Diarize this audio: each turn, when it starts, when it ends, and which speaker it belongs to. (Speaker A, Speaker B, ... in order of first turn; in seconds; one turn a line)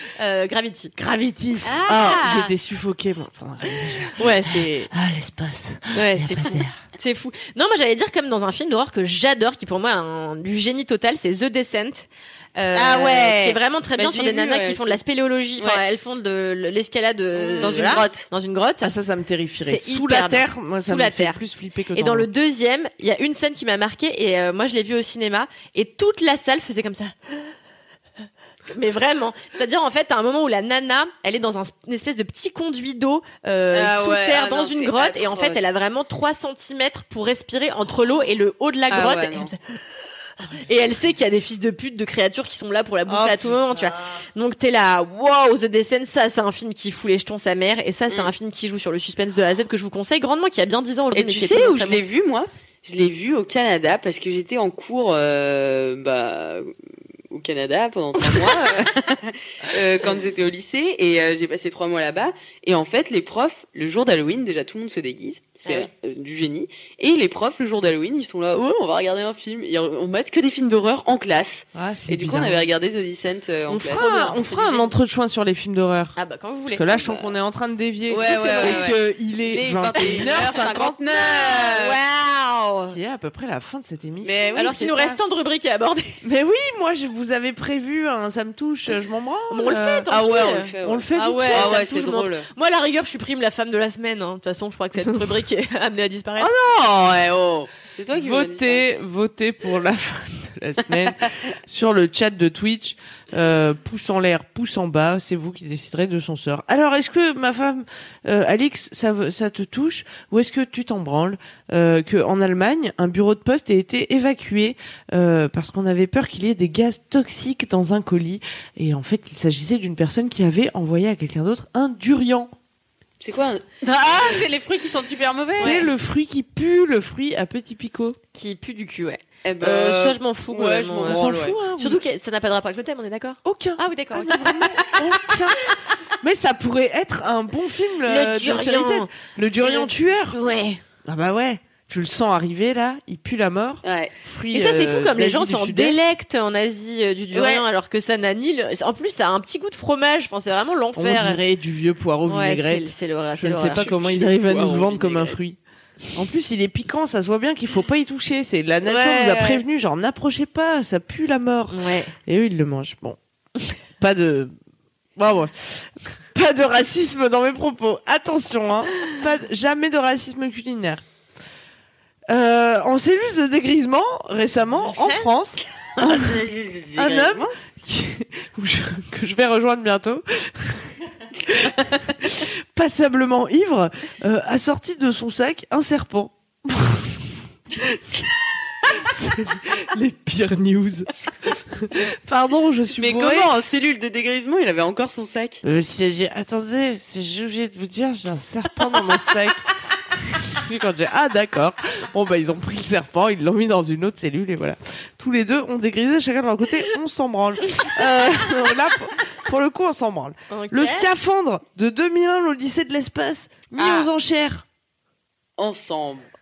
Speaker A: 0.2-0.9
Speaker B: 1.0-6.8
Speaker A: 1.6-2.5
Speaker A: 4.1-4.9
Speaker A: 5.9-18.9
Speaker C: 12.7-15.0
Speaker B: 17.4-18.0
Speaker C: 17.6-18.3
Speaker B: 18.8-22.3
Speaker A: 19.6-21.4
Speaker A: 21.9-27.5
Speaker A: 28.7-39.8
Speaker C: 33.7-35.7
Speaker C: 38.9-39.5
Speaker A: 40.5-52.0
Speaker B: 43.1-44.0
Speaker C: 51.1-56.7
Speaker C: 57.3-74.0
Speaker A: 65.6-65.9
Speaker B: 71.8-72.7
Speaker B: 73.7-76.2
Speaker A: 74.0-74.9
Speaker A: 76.2-77.2
Speaker B: 76.7-81.5
Speaker C: 78.1-82.0
Speaker A: 78.2-78.9
Speaker A: 80.0-80.3
Speaker A: 81.4-83.0
Speaker B: 82.9-84.4
Speaker C: 84.2-85.2
Speaker A: 84.5-86.2
Speaker B: 86.2-90.1
Speaker A: 89.5-96.5
Speaker C: 90.1-92.5
Speaker B: 90.8-91.8
Speaker C: 96.4-98.8
Speaker B: 96.5-97.1
Speaker B: 98.1-122.5
Speaker C: 123.2-125.9
Speaker B: 125.5-128.2
Speaker A: 125.6-125.8
Speaker A: 128.3-135.0
Speaker C: 129.4-131.6
Speaker B: 131.0-132.0
Speaker B: 133.4-140.4
Speaker A: 138.1-140.8
Speaker B: 141.0-146.0
Speaker C: 143.8-144.1
Speaker A: 144.5-151.4
Speaker C: 147.3-147.6
Speaker B: 151.0-155.6
Speaker A: 152.3-153.8
Speaker C: 153.7-155.4
Speaker B: 156.2-163.2
Speaker C: 158.9-159.6
Speaker A: 161.7-162.1
Speaker B: 164.0-164.5
Speaker B: 165.2-171.0
Speaker B: 172.3-176.4
Speaker A: 175.0-175.2
Speaker C: 176.0-177.5
Speaker B: 177.0-180.9
Speaker B: 181.4-193.5
Speaker C: 193.0-195.6
Speaker B: 195.6-199.6
Speaker B: 200.3-214.7
Speaker A: 210.5-211.1
Speaker A: 213.8-214.1
Speaker C: 215.6-216.3